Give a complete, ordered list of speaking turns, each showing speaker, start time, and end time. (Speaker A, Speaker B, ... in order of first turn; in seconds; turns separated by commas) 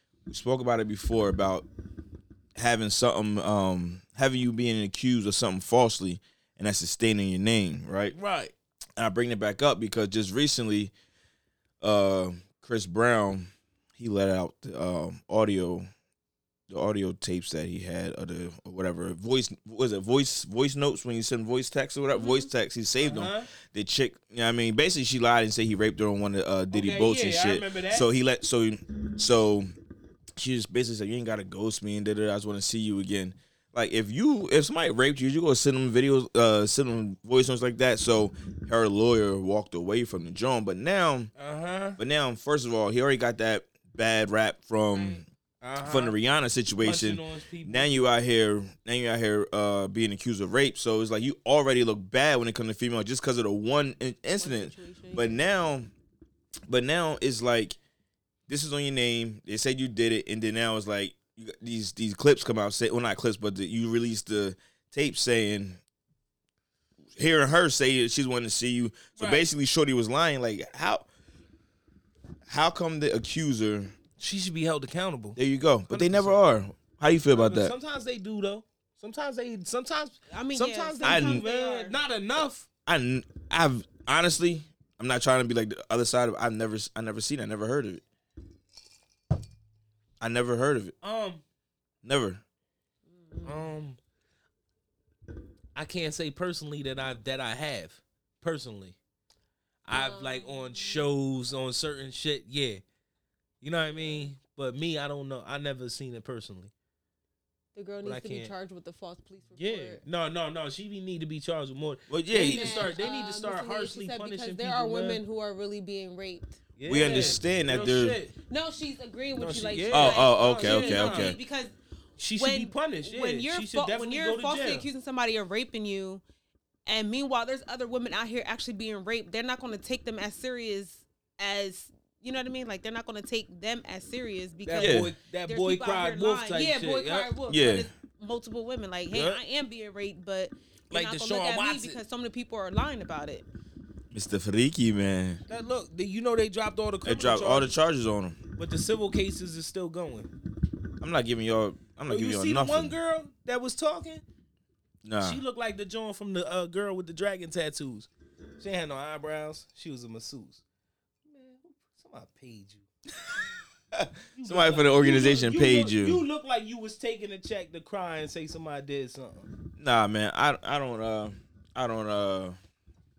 Speaker A: 0.3-1.7, Speaker A: 2.6-8.2, Speaker B: 8.1-8.5, Speaker A: 9.0-10.9, Speaker A: 11.8-15.9, Speaker A: 16.7-29.7, Speaker C: 22.1-22.5, Speaker B: 23.0-23.5, Speaker B: 26.7-28.1, Speaker A: 30.4-41.3, Speaker B: 41.4-42.0, Speaker A: 42.0-45.2, Speaker C: 44.9-45.2, Speaker B: 45.6-46.1, Speaker A: 45.8-55.9, Speaker B: 46.8-48.1, Speaker C: 54.4-55.4, Speaker A: 56.7-57.8, Speaker A: 58.5-65.8, Speaker A: 67.2-71.1, Speaker A: 72.5-74.0, Speaker B: 74.2-75.4, Speaker A: 75.4-77.7, Speaker B: 75.9-76.4, Speaker B: 77.3-82.7, Speaker C: 80.3-82.0, Speaker A: 81.0-81.4, Speaker A: 82.9-88.0, Speaker A: 90.2-91.0, Speaker B: 91.0-91.4, Speaker A: 92.0-92.4, Speaker C: 93.1-93.7, Speaker B: 93.4-94.0, Speaker B: 95.8-99.0, Speaker B: 99.8-102.8, Speaker C: 99.9-101.1, Speaker B: 103.6-106.7, Speaker C: 104.0-104.3, Speaker C: 107.8-110.0, Speaker B: 108.0-108.5, Speaker B: 109.6-115.2, Speaker A: 112.1-112.9, Speaker C: 112.3-117.4, Speaker B: 116.8-118.3, Speaker A: 116.9-118.2, Speaker C: 118.5-121.7, Speaker B: 119.4-121.4, Speaker A: 119.9-121.4, Speaker B: 122.2-124.8, Speaker C: 122.4-126.2, Speaker C: 126.9-143.5, Speaker B: 134.7-137.3, Speaker A: 134.8-135.1, Speaker A: 137.5-137.9, Speaker B: 139.1-139.4, Speaker B: 140.9-142.0, Speaker A: 144.1-145.4, Speaker B: 145.5-147.7, Speaker A: 147.1-148.4, Speaker B: 148.6-150.3, Speaker A: 151.0-152.9, Speaker B: 152.1-154.2, Speaker A: 155.0-155.4, Speaker B: 155.2-158.1, Speaker B: 158.6-160.6, Speaker B: 161.3-162.8, Speaker A: 163.9-166.2, Speaker B: 164.3-169.5, Speaker A: 169.8-172.6